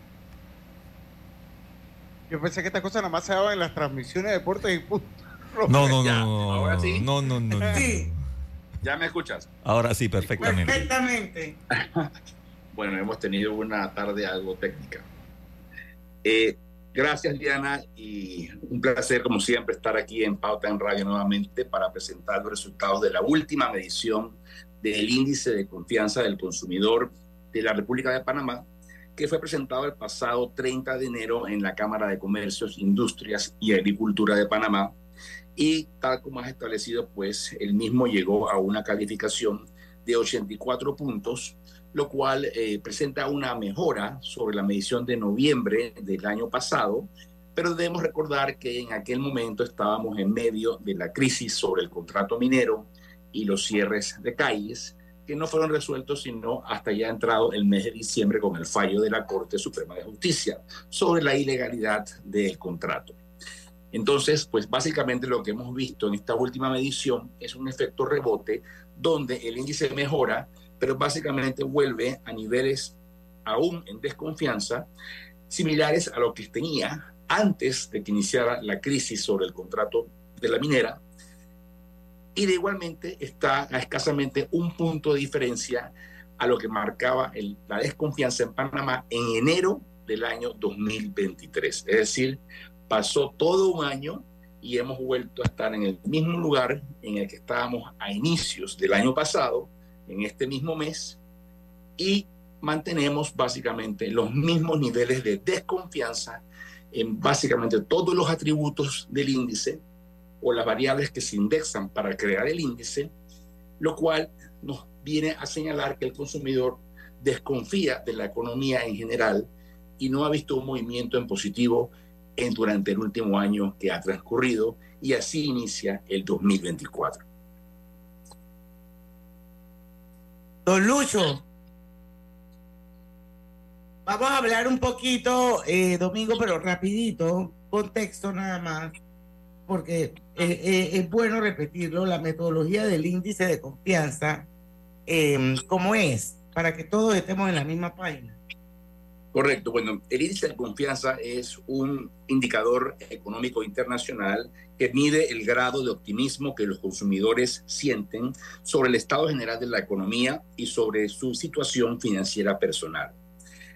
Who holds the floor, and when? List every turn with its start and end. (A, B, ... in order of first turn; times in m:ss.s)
0:02.3-0:05.9 A
0:05.7-0:08.2 B
0:06.0-0:07.1 C
0:07.5-0:07.9 A
0:07.7-0:08.1 D
0:08.8-0:09.5 C
0:09.6-0:10.9 B
0:10.2-0:10.6 C
0:10.4-0:11.6 D
0:11.7-0:12.1 C
0:12.7-0:15.0 C
0:16.2-0:34.9 C
0:35.6-1:03.2 C
1:03.9-1:14.9 C
1:15.5-1:21.0 C
1:22.3-1:41.2 C
1:42.0-1:49.8 C
1:50.4-1:53.1 C
1:53.8-2:07.2 C
2:10.6-2:11.4 D
2:14.0-2:18.9 D
2:19.7-2:24.5 D
2:25.1-2:28.4 D
2:29.3-2:43.1 C